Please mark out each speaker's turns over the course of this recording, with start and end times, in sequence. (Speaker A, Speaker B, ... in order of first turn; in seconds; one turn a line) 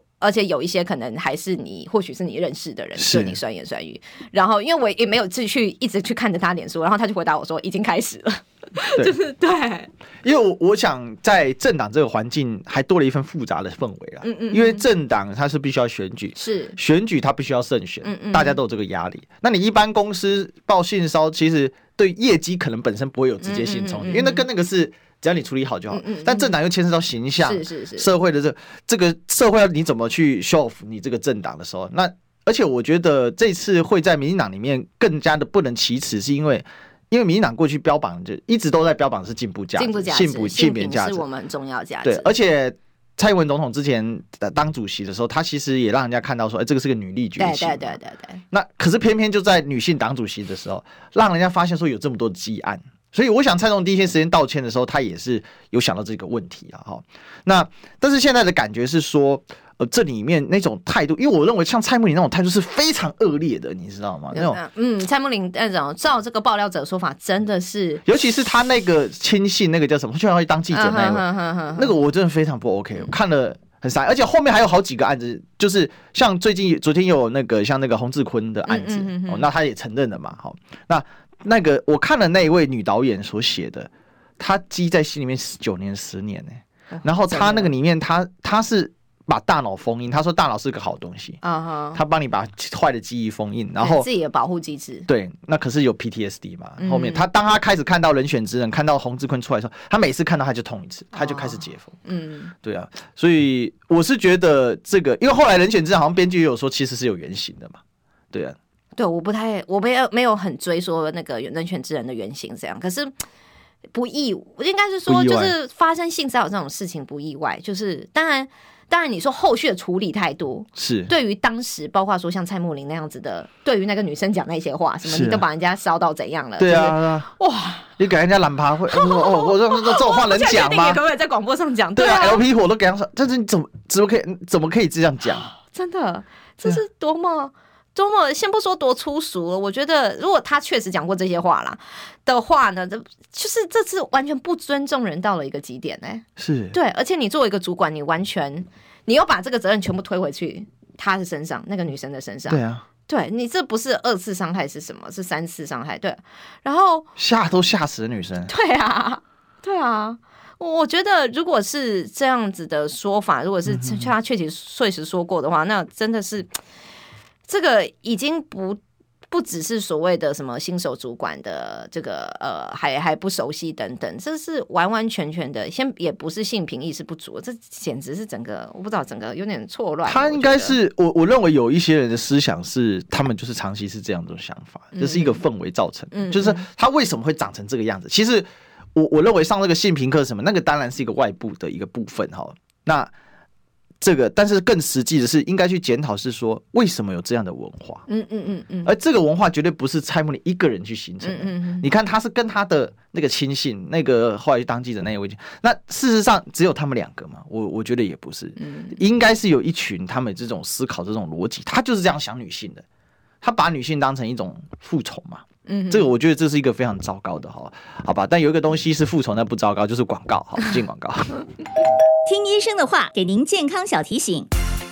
Speaker A: 0.2-9.9
Speaker B: 3.0-3.4
Speaker B: 10.2-41.2
Speaker A: 14.2-14.8
Speaker A: 16.4-16.8
Speaker A: 18.0-18.6
Speaker A: 23.4-24.4
Speaker A: 25.9-26.5
Speaker A: 27.4-28.1
Speaker A: 39.8-42.3
Speaker B: 42.0-48.0
Speaker A: 47.4-48.4
Speaker B: 48.5-64.6
Speaker A: 64.3-68.0
Speaker B: 68.0-91.4
Speaker A: 70.7-71.9
Speaker A: 78.7-79.5
Speaker A: 86.9-87.7
Speaker A: 91.4-92.0
Speaker B: 91.9-94.1
Speaker A: 93.8-95.1
Speaker B: 95.1-101.9
Speaker A: 96.8-97.3
Speaker A: 101.1-102.5
Speaker B: 102.6-107.8
Speaker B: 108.3-108.6
Speaker A: 109.0-113.1
Speaker A: 113.9-127.9
Speaker B: 115.1-115.5
Speaker B: 120.8-121.1
Speaker B: 125.0-125.4
Speaker B: 126.6-127.3
Speaker B: 128.0-131.0
Speaker A: 128.9-132.4
Speaker B: 131.9-135.5
Speaker A: 135.6-157.1
Speaker B: 146.4-146.8
Speaker B: 152.5-152.8
Speaker B: 157.2-158.5
Speaker A: 158.5-166.5
Speaker B: 163.7-164.1
Speaker A: 167.5-168.8
Speaker A: 169.3-180.8
Speaker B: 180.1-193.1
Speaker A: 184.9-185.4
Speaker A: 186.1-186.7
Speaker B: 194.0-198.1
Speaker A: 198.1-198.9
Speaker B: 198.8-212.8
Speaker A: 201.2-201.9
Speaker A: 208.6-209.0
Speaker B: 213.4-221.4
Speaker A: 215.7-216.1
Speaker C: 222.3-224.5